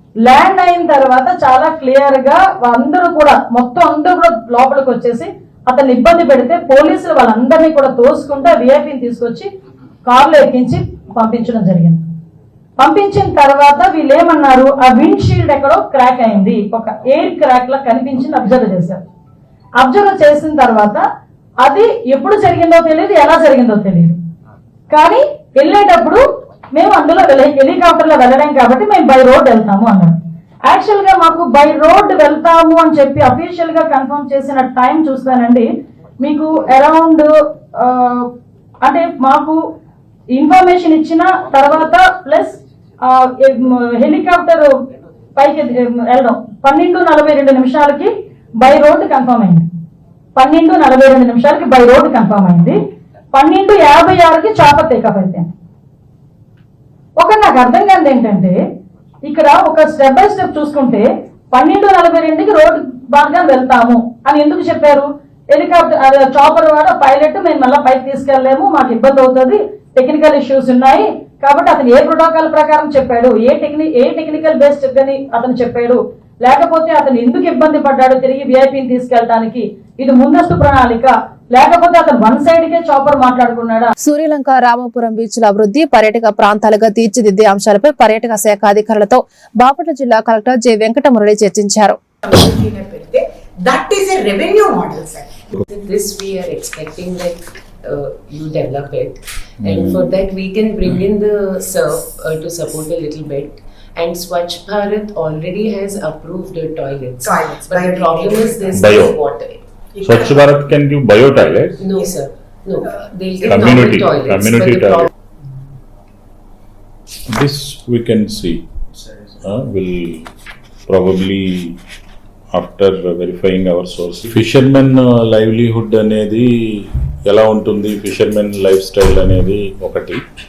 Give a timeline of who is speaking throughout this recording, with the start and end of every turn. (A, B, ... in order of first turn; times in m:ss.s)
0:00.2-0:09.5 A
0:10.0-0:12.0 A
0:12.8-0:19.0 A
0:19.8-0:21.0 A
0:21.6-0:24.2 A
0:24.9-0:26.2 A
0:26.7-0:30.1 A
0:30.7-0:35.6 A
0:36.2-0:38.3 A
0:38.8-0:39.6 A
0:40.3-0:44.7 A
0:45.4-0:49.6 A
0:50.4-0:52.8 A
0:53.3-0:55.5 A
0:57.2-0:58.6 A
0:59.2-1:23.9 A
1:24.0-1:32.0 B
1:32.2-1:35.4 C
1:35.7-1:49.6 D
1:39.6-1:40.1 E
1:47.2-1:49.2 C
1:48.7-1:49.2 E
1:49.9-1:50.6 C
1:50.0-1:51.8 E
1:51.8-1:55.1 D
1:52.8-1:53.7 C
1:53.4-1:55.0 E
1:57.3-1:58.6 E
1:59.4-2:00.3 E
2:00.9-2:01.7 E
2:02.5-2:06.4 E
2:07.3-2:10.2 E